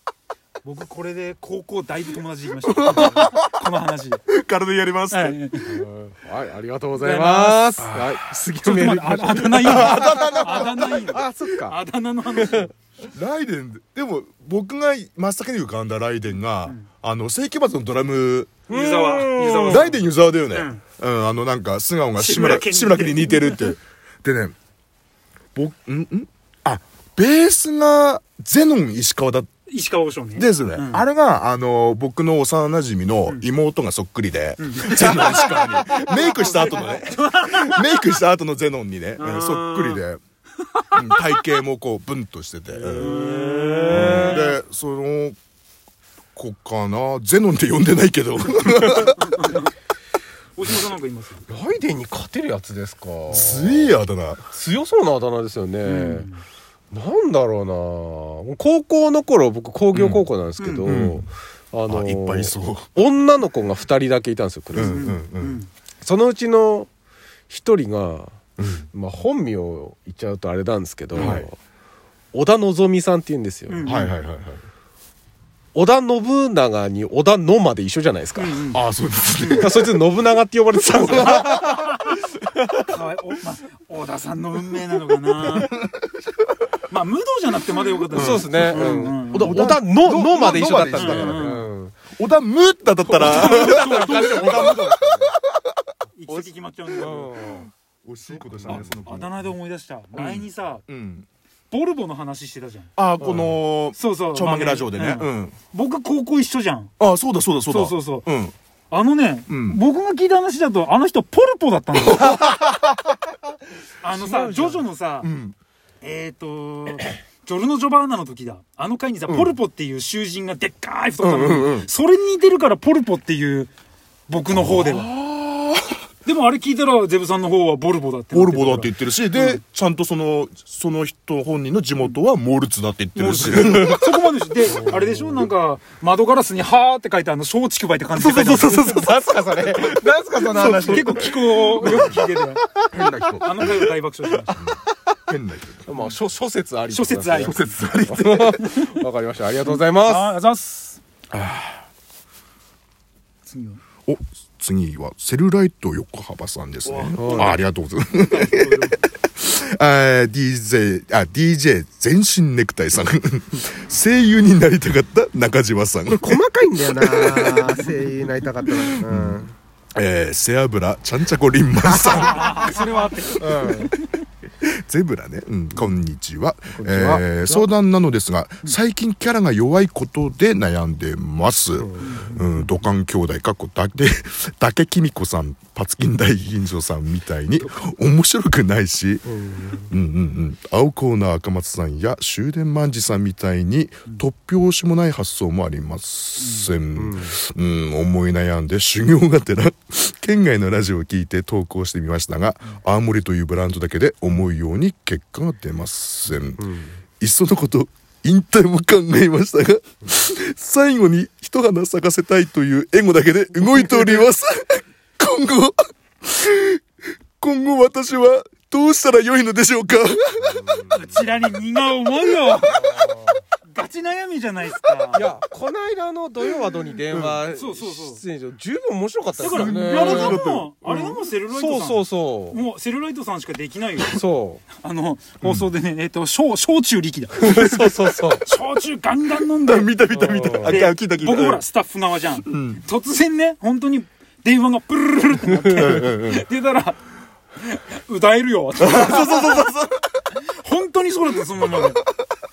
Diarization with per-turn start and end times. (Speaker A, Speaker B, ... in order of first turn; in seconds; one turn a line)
Speaker A: 0.6-4.2
Speaker B: 2.6-3.6
Speaker B: 4.3-5.4
Speaker A: 5.1-5.8
Speaker C: 5.7-11.8
Speaker A: 7.0-12.7
Speaker B: 9.6-11.1
Speaker B: 13.0-18.6
Speaker C: 18.7-19.9
Speaker A: 18.7-20.8
Speaker B: 19.7-24.6
Speaker A: 22.2-23.8
Speaker B: 25.6-29.5
Speaker A: 29.7-31.1
Speaker B: 30.4-40.2
Speaker A: 34.6-38.0
Speaker C: 35.0-35.9
Speaker A: 39.2-40.0
Speaker A: 40.7-41.4
Speaker B: 40.9-43.1
Speaker C: 42.7-44.4
Speaker A: 43.0-44.6
Speaker B: 43.9-45.4
Speaker B: 46.4-49.3
Speaker A: 48.6-49.7
Speaker A: 50.6-51.5
Speaker C: 51.5-54.0
Speaker B: 53.3-54.5
Speaker C: 54.5-56.3
Speaker A: 55.9-56.4
Speaker C: 56.9-65.1
Speaker B: 59.9-60.2
Speaker A: 60.6-60.9
Speaker B: 60.9-61.3
Speaker B: 61.9-62.9
Speaker B: 64.7-65.6
Speaker A: 64.8-65.7
Speaker C: 66.0-66.9
Speaker C: 67.5-68.4
Speaker B: 68.6-68.9
Speaker C: 68.9-71.6
Speaker A: 71.2-71.4
Speaker B: 71.2-71.5
Speaker C: 72.3-74.0
Speaker A: 73.7-74.1
Speaker B: 73.8-74.6
Speaker C: 75.8-78.6
Speaker A: 78.4-78.8
Speaker B: 78.7-80.1
Speaker A: 79.4-79.7
Speaker C: 79.6-81.9
Speaker B: 81.0-81.5
Speaker A: 81.1-85.8
Speaker B: 85.4-86.2
Speaker A: 86.9-89.7
Speaker B: 88.0-91.5
Speaker C: 88.1-92.0
Speaker A: 90.3-91.7
Speaker B: 92.2-95.6
Speaker C: 93.1-95.3
Speaker A: 93.2-94.9
Speaker A: 96.2-97.7
Speaker C: 97.0-97.7
Speaker B: 97.4-99.4
Speaker A: 98.3-100.8
Speaker B: 100.2-101.3
Speaker A: 101.7-106.9
Speaker B: 103.0-105.6
Speaker B: 107.0-108.5
Speaker A: 107.7-108.3
Speaker A: 108.9-112.5
Speaker B: 109.5-109.8
Speaker B: 112.0-112.8
Speaker A: 114.0-115.3
Speaker C: 114.2-114.8
Speaker B: 115.2-115.5
Speaker A: 116.0-123.7
Speaker C: 121.2-121.8
Speaker A: 124.3-125.1
Speaker B: 124.5-126.0
Speaker A: 126.2-129.6
Speaker B: 128.3-134.1
Speaker A: 133.2-138.9
Speaker C: 133.6-134.0
Speaker C: 138.2-142.2
Speaker B: 139.8-142.2
Speaker A: 140.6-142.7
Speaker C: 142.8-143.3
Speaker B: 142.9-143.9
Speaker A: 143.4-144.7
Speaker B: 145.3-145.8
Speaker C: 145.9-150.3
Speaker A: 146.9-147.7
Speaker B: 147.4-148.6
Speaker A: 148.6-149.1
Speaker A: 149.6-151.0
Speaker C: 151.4-151.8
Speaker A: 153.5-153.8
Speaker B: 154.1-167.9
Speaker A: 156.8-157.6
Speaker C: 157.2-157.6
Speaker A: 158.2-159.0
Speaker C: 166.1-169.5
Speaker B: 168.7-169.4
Speaker B: 170.0-172.8
Speaker A: 172.0-174.1
Speaker C: 173.3-173.9
Speaker B: 173.5-173.8
Speaker B: 174.6-189.2
Speaker C: 176.7-177.7
Speaker C: 181.8-182.1
Speaker A: 182.0-182.8
Speaker C: 189.3-189.9
Speaker B: 189.9-206.7
Speaker A: 196.4-196.7
Speaker C: 197.0-197.3
Speaker C: 206.6-206.9
Speaker B: 207.2-216.8
Speaker C: 213.9-214.2
Speaker B: 217.4-220.9
Speaker A: 220.9-223.1
Speaker C: 222.8-223.3
Speaker A: 223.7-225.3
Speaker C: 225.1-230.5
Speaker B: 227.1-227.4
Speaker A: 227.5-228.2
Speaker B: 229.4-231.2
Speaker A: 229.4-234.2
Speaker C: 231.5-232.6
Speaker C: 234.0-234.6
Speaker A: 234.8-247.0
Speaker B: 235.4-235.7
Speaker C: 237.4-238.4
Speaker B: 239.6-241.6
Speaker C: 240.1-240.8
Speaker B: 242.5-242.8
Speaker B: 245.8-246.4
Speaker A: 247.6-249.7
Speaker B: 248.8-250.0
Speaker A: 250.6-252.0